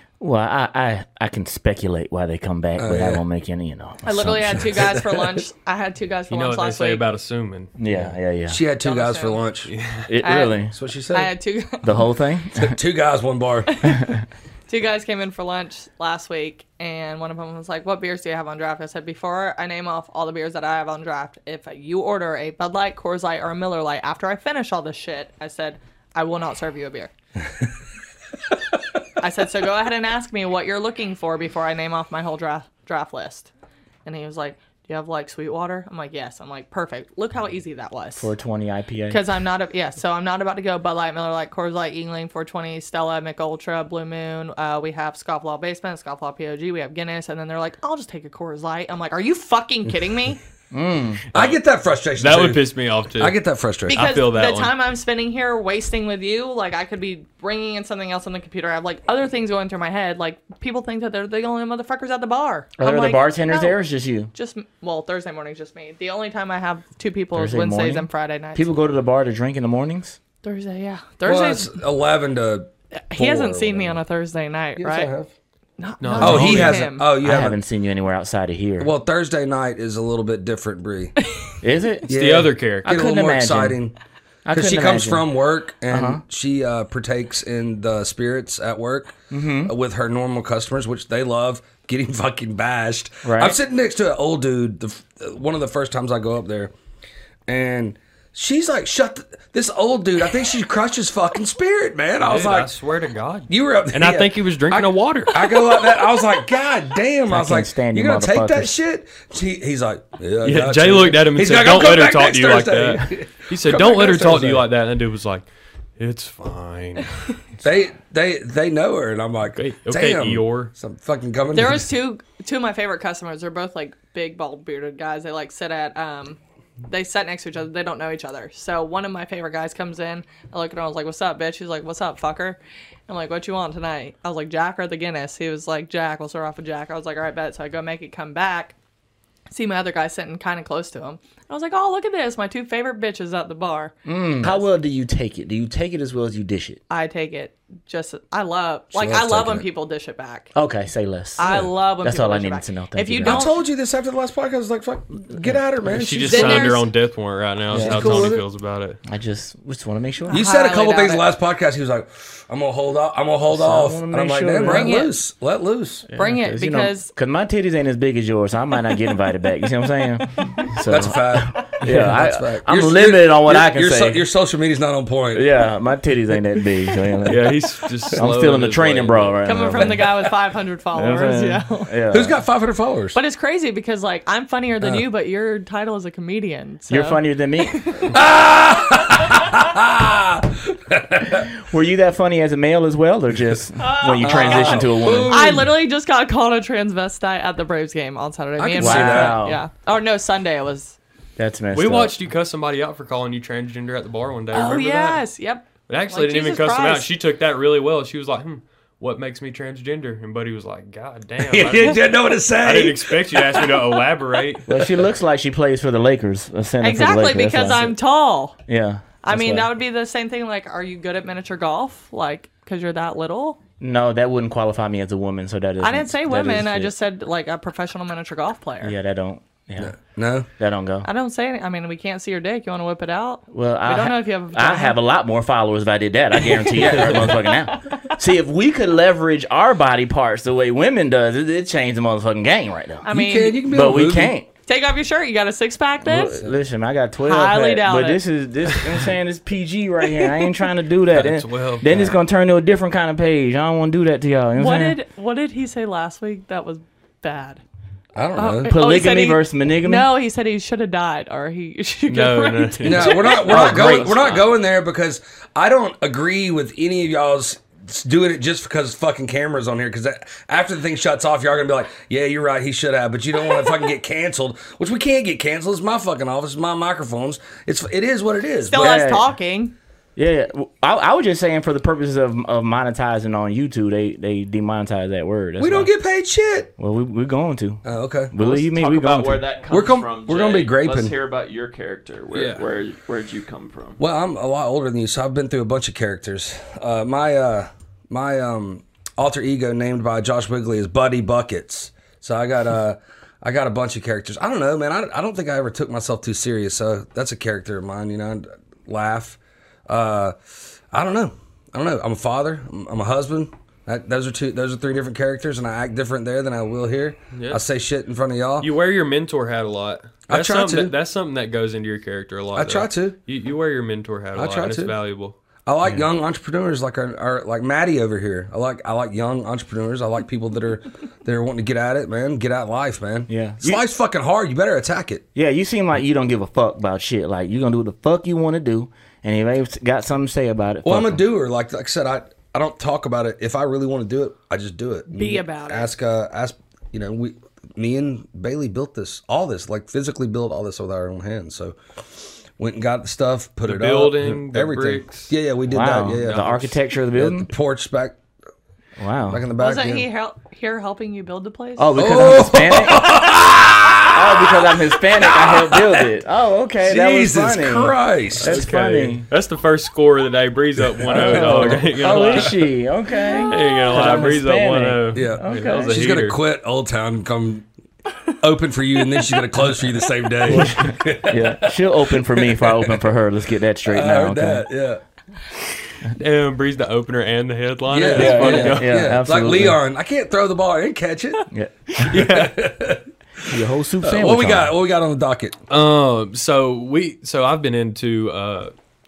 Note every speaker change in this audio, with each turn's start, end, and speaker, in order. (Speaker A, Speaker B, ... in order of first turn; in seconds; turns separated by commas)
Speaker A: 0.2-4.7, Speaker B: 2.8-3.2, Speaker C: 4.0-7.0, Speaker B: 4.6-5.4, Speaker D: 6.3-8.1, Speaker A: 7.8-8.6, Speaker B: 8.5-9.7, Speaker C: 8.8-9.4, Speaker D: 9.7-10.1, Speaker A: 10.1-10.7, Speaker C: 10.2-12.0, Speaker B: 10.7-11.3, Speaker A: 11.8-12.8, Speaker B: 12.5-13.8, Speaker A: 13.9-14.2, Speaker C: 14.7-27.1, Speaker C: 29.2-33.5, Speaker C: 34.0-38.3, Speaker A: 38.1-39.2, Speaker C: 39.1-50.4, Speaker A: 50.7-51.2, Speaker D: 51.3-51.6, Speaker B: 51.3-54.0, Speaker D: 52.2-53.4, Speaker C: 53.9-63.8, Speaker D: 53.9-54.7, Speaker A: 62.8-64.3, Speaker C: 64.3-68.8, Speaker A: 67.3-70.2, Speaker C: 70.4-71.8, Speaker B: 71.2-74.0, Speaker C: 73.0-75.1, Speaker B: 74.8-75.3, Speaker C: 75.8-77.1, Speaker D: 76.0-76.8, Speaker B: 76.2-77.6, Speaker A: 76.3-78.9, Speaker B: 78.8-81.1, Speaker C: 81.2-81.5, Speaker A: 81.6-82.1, Speaker B: 82.1-83.9, Speaker D: 82.1-82.8, Speaker A: 82.8-83.8, Speaker A: 84.4-85.2, Speaker B: 84.5-96.7, Speaker A: 85.9-86.2, Speaker A: 89.3-89.7, Speaker A: 93.2-93.6, Speaker B: 97.5-102.7, Speaker D: 102.2-105.8, Speaker B: 103.5-114.7, Speaker A: 107.3-108.7, Speaker D: 110.4-117.2, Speaker B: 117.6-121.8, Speaker D: 119.5-120.7, Speaker C: 121.5-138.8, Speaker C: 139.5-143.9, Speaker A: 144.1-146.8, Speaker C: 146.9-150.5, Speaker B: 148.9-149.7, Speaker A: 150.5-153.5, Speaker C: 151.4-153.6, Speaker B: 153.2-156.8, Speaker D: 155.9-159.0, Speaker C: 156.3-156.8, Speaker B: 157.7-158.4, Speaker A: 157.7-158.3, Speaker A: 159.1-160.4, Speaker C: 160.3-161.3, Speaker B: 160.3-166.1, Speaker A: 163.5-165.0, Speaker C: 164.6-165.1, Speaker A: 166.1-174.2, Speaker C: 166.1-167.1, Speaker B: 170.8-175.5, Speaker A: 175.3-177.5, Speaker D: 177.2-179.4, Speaker A: 178.1-180.1, Speaker C: 179.4-182.0, Speaker A: 180.9-182.4, Speaker B: 182.1-183.2, Speaker C: 183.1-188.1, Speaker A: 186.9-187.8, Speaker B: 188.1-191.5, Speaker A: 191.3-195.6, Speaker C: 193.8-201.0, Speaker B: 194.2-195.7, Speaker B: 198.6-199.4, Speaker A: 198.8-199.6, Speaker A: 201.4-202.1, Speaker D: 201.7-205.2, Speaker C: 204.5-207.1, Speaker D: 205.8-214.8, Speaker B: 211.4-213.7, Speaker A: 214.7-218.0, Speaker C: 216.8-218.6, Speaker A: 218.7-219.7, Speaker C: 219.2-223.6, Speaker A: 223.8-226.9, Speaker C: 225.8-229.0, Speaker A: 228.8-229.9, Speaker B: 229.8-230.5, Speaker A: 230.6-231.1, Speaker C: 231.0-235.0, Speaker A: 233.5-243.1, Speaker C: 236.5-238.1, Speaker C: 243.0-243.6, Speaker B: 243.1-244.4, Speaker A: 243.7-244.5, Speaker C: 244.7-246.3, Speaker A: 246.0-255.0, Speaker B: 246.2-246.5, Speaker C: 247.2-248.2, Speaker D: 251.1-252.2, Speaker C: 254.5-257.6, Speaker B: 258.1-258.7, Speaker C: 258.4-264.0, Speaker A: 258.7-260.1, Speaker D: 262.1-264.2, Speaker B: 262.8-279.0, Speaker A: 263.4-264.4, Speaker C: 278.6-279.7, Speaker A: 278.8-279.3, Speaker A: 280.1-285.9, Speaker B: 285.6-286.7, Speaker A: 286.8-289.5, Speaker B: 287.8-288.3, Speaker E: 288.3-294.0, Speaker B: 289.7-291.1, Speaker B: 294.0-310.4, Speaker B: 310.9-318.7, Speaker D: 317.3-317.6, Speaker D: 318.6-325.4, Speaker B: 320.3-320.9, Speaker B: 322.5-323.2, Speaker B: 324.3-324.9, Speaker B: 325.6-335.2, Speaker A: 333.3-333.8, Speaker A: 335.3-341.2, Speaker B: 340.8-358.2, Speaker C: 345.1-345.9, Speaker D: 353.6-355.3, Speaker A: 355.7-357.5, Speaker D: 356.1-356.6, Speaker A: 359.0-359.4, Speaker B: 359.3-360.1, Speaker C: 359.6-362.2, Speaker A: 361.8-363.1, Speaker B: 361.9-366.1, Speaker A: 364.1-369.3, Speaker B: 366.8-368.7, Speaker D: 368.4-372.6, Speaker B: 371.0-372.5, Speaker A: 371.1-376.0, Speaker C: 373.3-373.6, Speaker D: 373.5-376.4, Speaker B: 375.1-377.7, Speaker B: 378.4-383.1, Speaker A: 380.5-384.6, Speaker B: 383.9-385.0, Speaker D: 386.1-389.1, Speaker B: 387.9-391.5, Speaker A: 388.1-389.8, Speaker A: 391.5-392.3, Speaker B: 392.0-395.6, Speaker D: 392.1-392.5, Speaker A: 393.5-394.7, Speaker D: 395.7-398.7